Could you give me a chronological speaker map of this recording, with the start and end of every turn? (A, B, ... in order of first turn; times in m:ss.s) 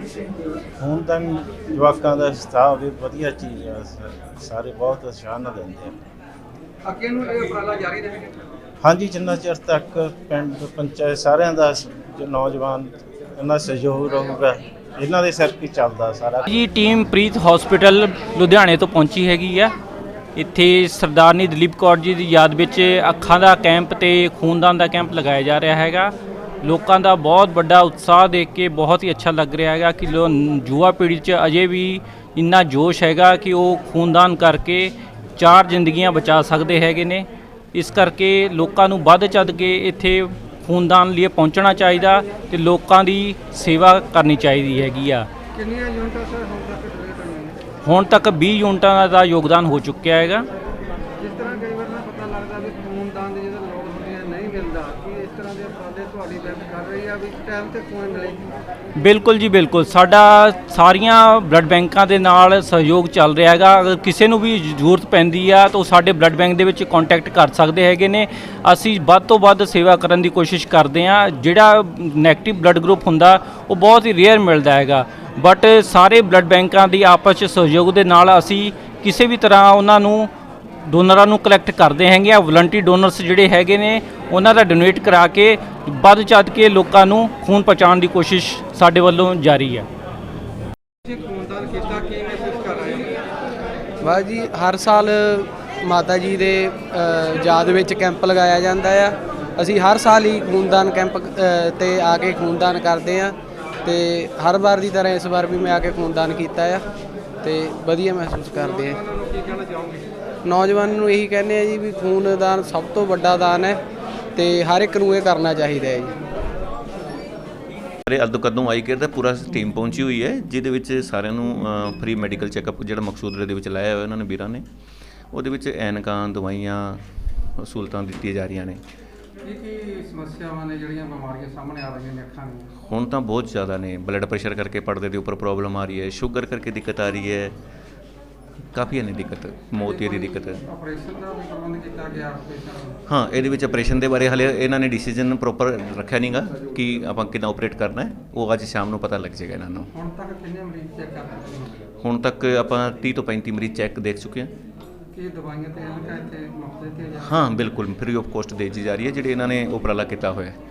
0:00.8-0:06.0 A
0:07.0-0:08.2 B
0:08.8-0:16.5 A
0:16.5-0:19.7 C
0:20.4-0:45.3 C
0:45.5-0:47.6 B
0:47.8-0:50.5 C
0:51.2-0:58.4 B
0:59.0-1:20.3 C
1:20.8-1:29.9 C
1:31.1-1:33.2 B
1:34.0-1:46.9 D
1:47.4-1:49.0 D
1:49.2-1:49.9 B
1:50.4-1:53.8 D
1:54.4-1:56.2 D
1:58.0-2:04.6 E
2:05.3-2:08.8 E
2:09.5-2:12.7 B
2:12.8-2:17.6 E
2:18.7-2:20.6 E
2:19.9-2:23.0 B
2:23.1-2:29.9 E
2:29.9-2:31.8 B
2:32.0-2:34.5 E
2:35.1-2:37.6 B
2:37.2-2:40.6 E